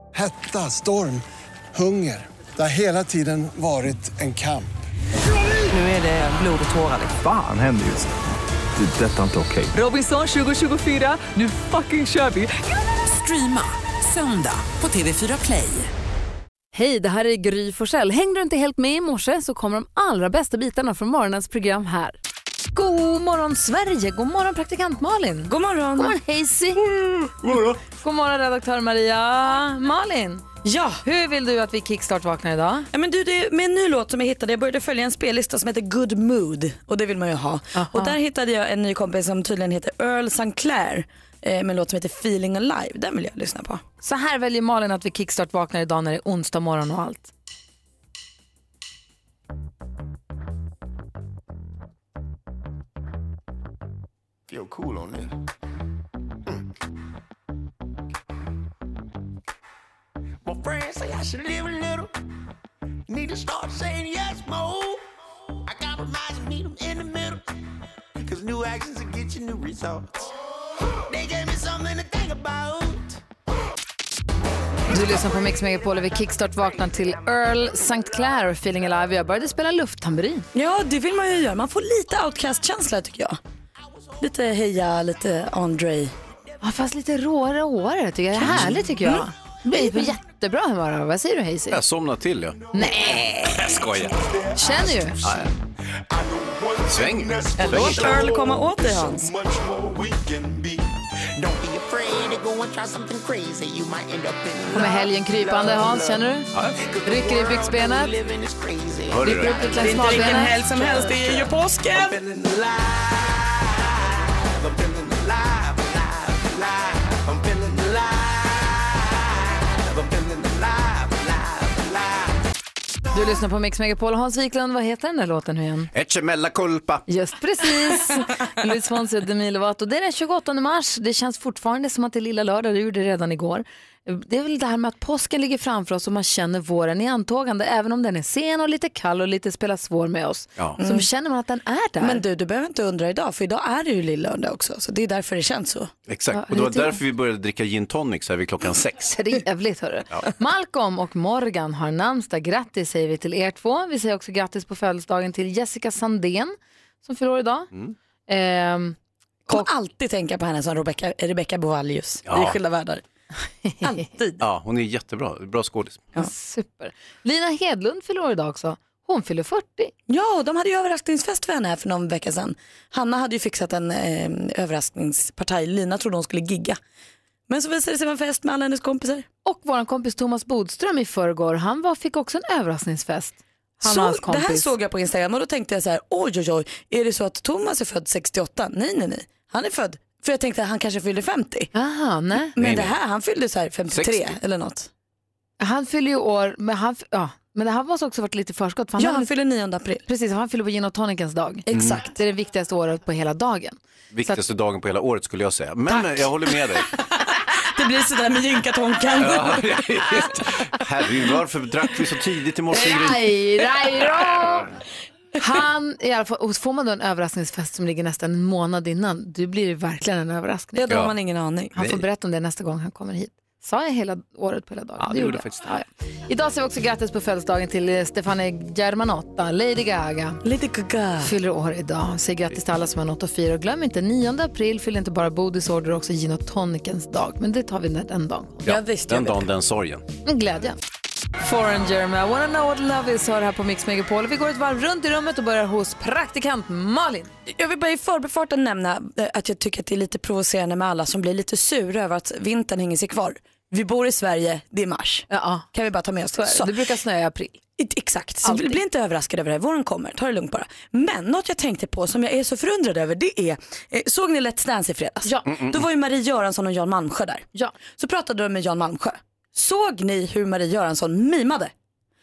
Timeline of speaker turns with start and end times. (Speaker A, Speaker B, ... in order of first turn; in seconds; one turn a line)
Speaker A: 0.1-4.7
Speaker B: 5.7-7.2
Speaker C: 7.2-9.7
Speaker B: 9.7-15.9
Speaker D: 16.7-22.2
Speaker D: 22.7-26.8
Speaker E: 25.5-26.1
Speaker F: 27.5-27.8
Speaker D: 27.8-30.5
Speaker E: 30.6-31.0
Speaker D: 31.0-32.9
Speaker E: 32.9-43.8
Speaker D: 37.7-38.1
Speaker D: 44.0-47.3
Speaker G: 54.5-55.3
Speaker G: 60.4-62.1
Speaker G: 63.1-67.4
Speaker G: 68.2-70.3
Speaker G: 71.1-73.2
Speaker D: 74.9-80.5
Speaker E: 80.5-83.4
Speaker E: 84.2-86.1
Speaker D: 86.6-91.8
Speaker E: 88.4-89.2
Speaker F: 91.7-92.6
Speaker D: 92.7-93.3
Speaker F: 93.4-94.2
Speaker G: 94.4-95.0
Speaker D: 94.5-95.2
Speaker F: 95.2-95.5
Speaker G: 96.1-106.2
Speaker F: 96.9-98.2
Speaker E: 97.6-99.3
Speaker D: 104.7-106.5
Speaker F: 106.5-106.8
Speaker G: 106.7-122.4
Speaker D: 107.0-108.1
Speaker F: 109.1-109.7
Speaker D: 109.2-110.5
Speaker E: 109.7-112.2
Speaker D: 123.1-125.9
Speaker F: 125.9-127.0
Speaker D: 127.1-142.2
Speaker E: 140.8-141.1
Speaker E: 142.0-145.9
Speaker F: 146.1-149.2
Speaker D: 146.3-147.0
Speaker D: 149.1-157.7
Speaker D: 158.3-159.0
Speaker E: 159.5-163.0
Speaker F: 162.3-162.6
Speaker E: 163.8-164.4
Speaker F: 164.4-166.1
Speaker D: 166.2-169.9
Speaker E: 170.1-176.8
Speaker E: 177.5-179.3
Speaker D: 179.4-184.7
Speaker E: 183.8-191.7
Speaker D: 191.7-192.5
Speaker E: 192.5-194.9
Speaker F: 192.6-192.9
Speaker F: 193.9-194.3
Speaker D: 195.6-199.3
Speaker E: 199.0-200.0
Speaker D: 200.1-204.4
Speaker E: 201.7-202.1
Speaker F: 201.7-202.0
Speaker F: 204.1-206.9
Speaker E: 207.7-210.0
Speaker F: 209.2-213.3
Speaker D: 212.7-214.7
Speaker D: 215.4-221.0
Speaker E: 220.7-221.7
Speaker D: 221.7-230.4
Speaker F: 221.8-222.0
Speaker F: 225.0-225.7
Speaker E: 230.4-231.3
Speaker D: 231.2-238.6
Speaker F: 238.6-240.0
Speaker E: 238.7-239.5
Speaker D: 240.2-240.8
Speaker D: 241.4-247.3
Speaker E: 247.5-256.7
Speaker D: 255.3-255.7
Speaker D: 256.4-257.6
Speaker E: 257.8-271.7
Speaker D: 258.4-258.8
Speaker F: 265.5-265.8